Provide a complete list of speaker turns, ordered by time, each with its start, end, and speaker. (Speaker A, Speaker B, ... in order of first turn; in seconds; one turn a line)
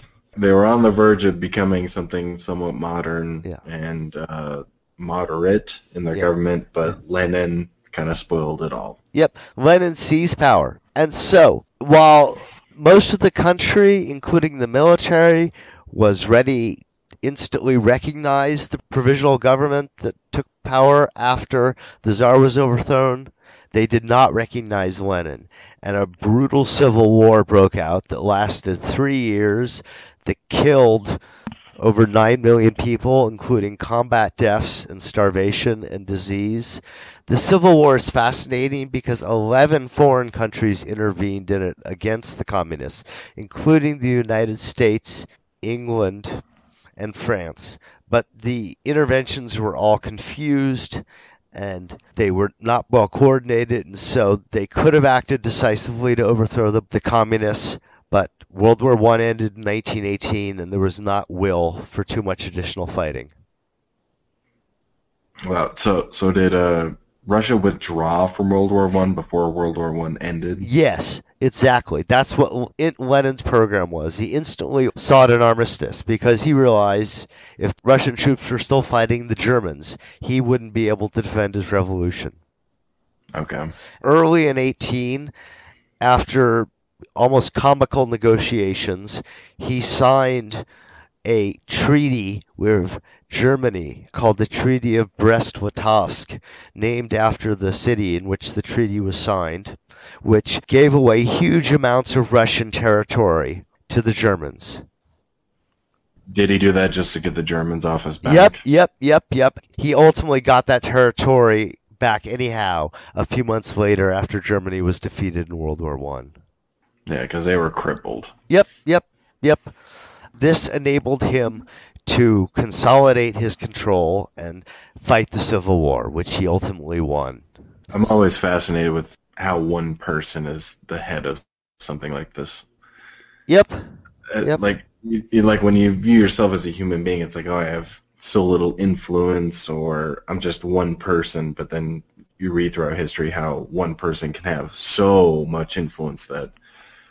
Speaker A: 0.3-9.0
Speaker B: 9.1-31.2
Speaker B: 31.8-46.4
Speaker B: 47.0-63.3
Speaker A: 65.5-70.7
Speaker B: 70.6-82.4
Speaker A: 83.3-83.7
Speaker B: 84.0-85.3
Speaker B: 86.0-90.7
Speaker B: 91.2-104.8
Speaker A: 106.3-108.6
Speaker B: 108.2-116.3
Speaker A: 117.1-118.3
Speaker B: 118.5-119.7
Speaker B: 120.4-127.5
Speaker A: 127.9-132.7
Speaker B: 133.5-133.8
Speaker A: 134.3-146.5